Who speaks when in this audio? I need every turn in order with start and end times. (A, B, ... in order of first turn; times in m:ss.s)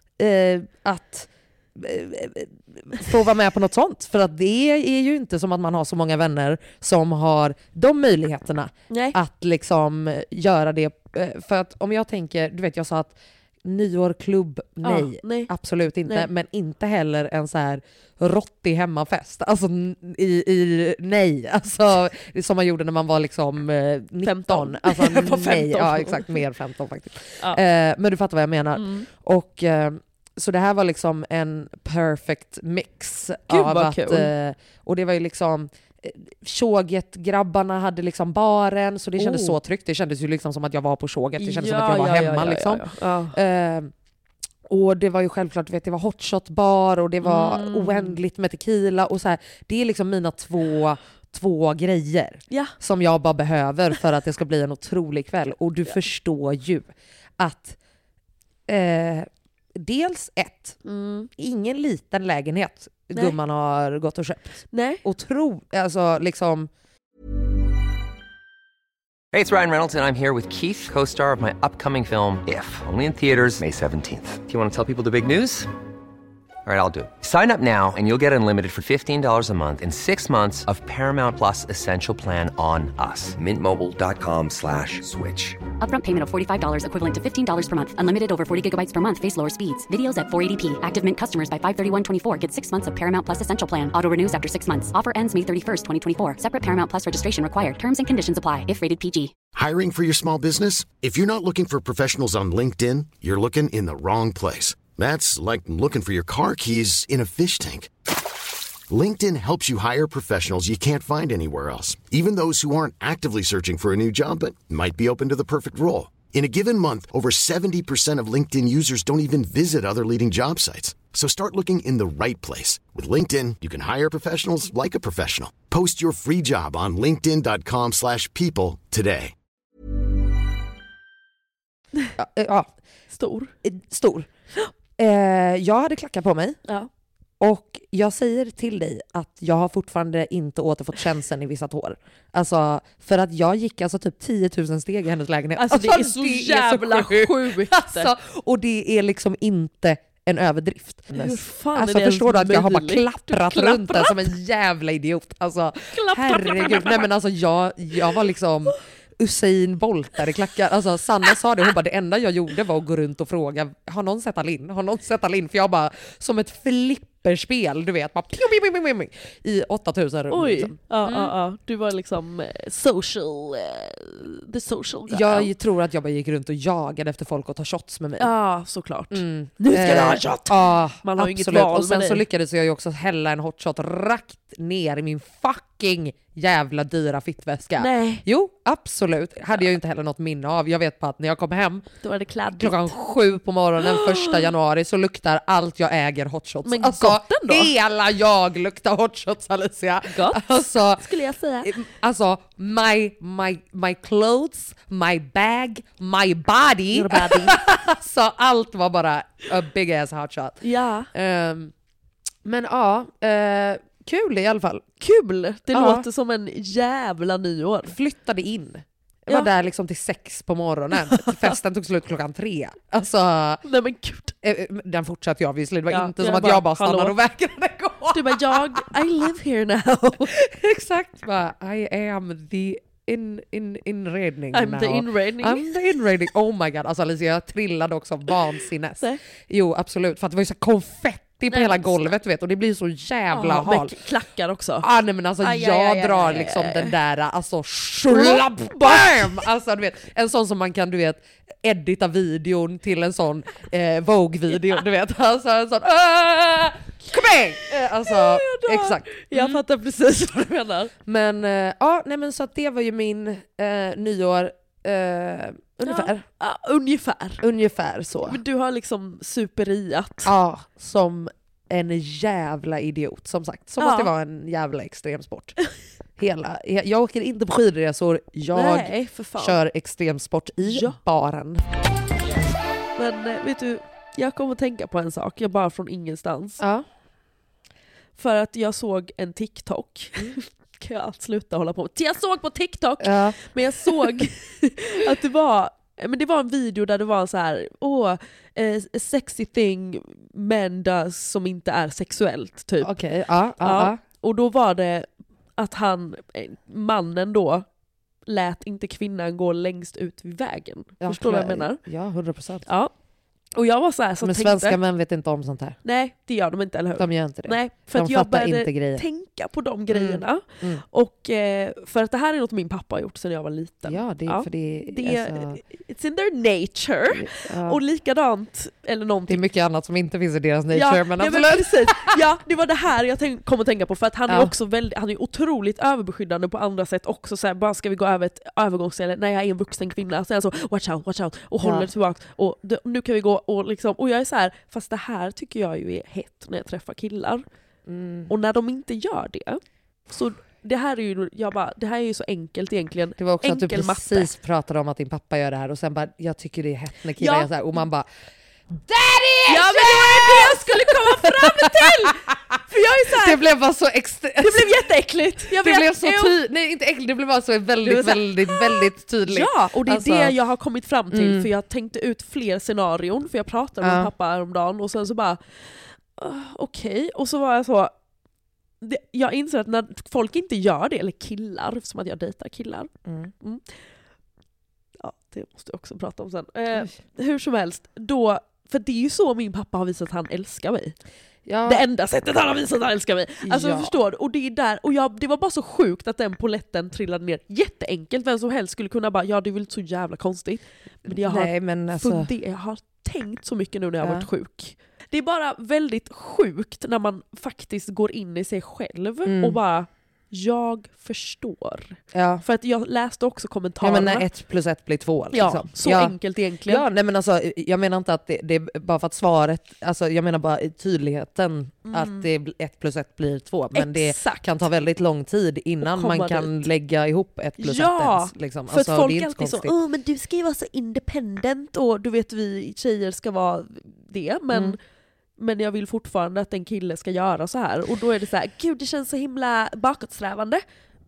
0:00.2-0:43.9 A
0:08.9-0:09.2 B
0:14.8-0:15.5 B
0:24.2-0:26.4 B
0:28.7-0:29.0 B
0:33.5-0:34.3 B
0:39.2-0:39.6 B
0:41.4-0:43.4 B
0:44.7-0:57.8 A
0:47.2-0:48.2 B
0:58.7-1:00.8 A
1:00.8-1:01.3 B
1:01.4-1:06.7 A
1:04.7-1:05.0 B
1:09.3-1:15.7 C
1:16.6-1:25.6 C
1:25.8-1:39.3 D
1:39.5-1:47.9 E
1:48.9-2:09.3 E
2:12.2-2:12.7 A
2:13.1-2:13.5 B
2:13.6-2:14.3 A
2:15.0-2:16.6 A
2:17.4-2:51.3 A
2:25.6-2:28.1 B
2:31.1-2:34.3 B
2:35.9-2:37.1 B
2:50.3-2:55.5 B
2:55.1-2:58.3 A
2:58.2-3:02.2 B
2:59.1-3:11.9 A
3:07.8-3:08.2 B
3:12.0-3:13.0 B
3:12.5-3:21.1 A
3:13.8-3:14.5 B
3:16.6-3:17.7 B
3:20.1-3:21.7 B
3:21.6-3:31.7 A
3:26.9-3:27.6 B
3:30.6-3:31.1 B
3:32.4-3:34.8 A
3:35.0-3:37.9 B
3:35.7-3:36.0 A
3:37.8-3:43.6 A
3:41.0-3:41.5 B
3:43.6-3:44.3 B
3:44.4-3:49.2 A
3:45.9-3:47.1 B
3:48.1-3:50.3 B
3:50.2-4:04.0 A
3:54.5-3:55.7 B
4:01.5-4:02.1 B
4:03.3-4:04.8 B
4:04.8-4:19.6 A
4:05.4-4:06.9 B
4:08.1-4:09.4 B
4:18.0-4:20.9 B
4:21.0-4:26.2 A
4:25.8-4:27.4 B
4:27.4-4:28.4 A
4:28.2-4:30.3 B
4:30.2-4:35.6 A
4:33.8-4:34.1 B
4:36.2-4:41.6 A
4:38.5-4:39.6 B
4:40.6-4:41.0 B
4:43.0-4:46.6 B
4:46.6-4:46.8 A
4:48.2-5:02.9 B
4:53.0-4:54.2 A
5:02.8-5:04.0 A
5:03.6-5:07.6 B
5:08.3-5:11.8 B
5:11.0-5:12.7 A
5:12.6-5:12.9 B
5:13.5-5:14.8 B
5:14.2-5:15.8 A
5:15.8-5:29.4 B
5:17.0-5:19.0 A
5:19.9-5:20.8 A
5:23.8-5:25.6 A
5:27.1-5:27.8 A
5:29.3-5:32.2 A
5:30.7-5:47.4 B
5:41.6-5:41.9 A
5:47.8-5:48.3 A
5:48.3-5:54.3 B
5:53.2-5:58.1 A
5:57.2-5:57.5 B
5:58.8-6:04.8 A
5:59.5-6:03.4 B
6:04.4-6:06.4 B
6:05.5-6:10.4 A
6:07.8-6:17.9 B
6:11.1-6:11.5 A
6:13.8-6:14.1 A
6:18.8-6:23.8 B
6:23.0-6:23.3 A
6:25.0-6:31.0 B
6:31.4-6:31.8 A
6:31.6-6:54.3 B
6:33.4-6:34.0 A
6:41.0-6:42.3 A
6:44.0-6:44.3 A
6:49.2-6:49.6 A
6:52.1-6:52.4 A
6:53.8-7:09.7 A
6:55.3-6:56.8 B
7:01.9-7:02.3 B
7:03.7-7:04.6 B
7:05.8-7:06.6 B
7:07.6-7:14.8 B
7:14.5-7:14.8 A
7:15.4-7:20.6 B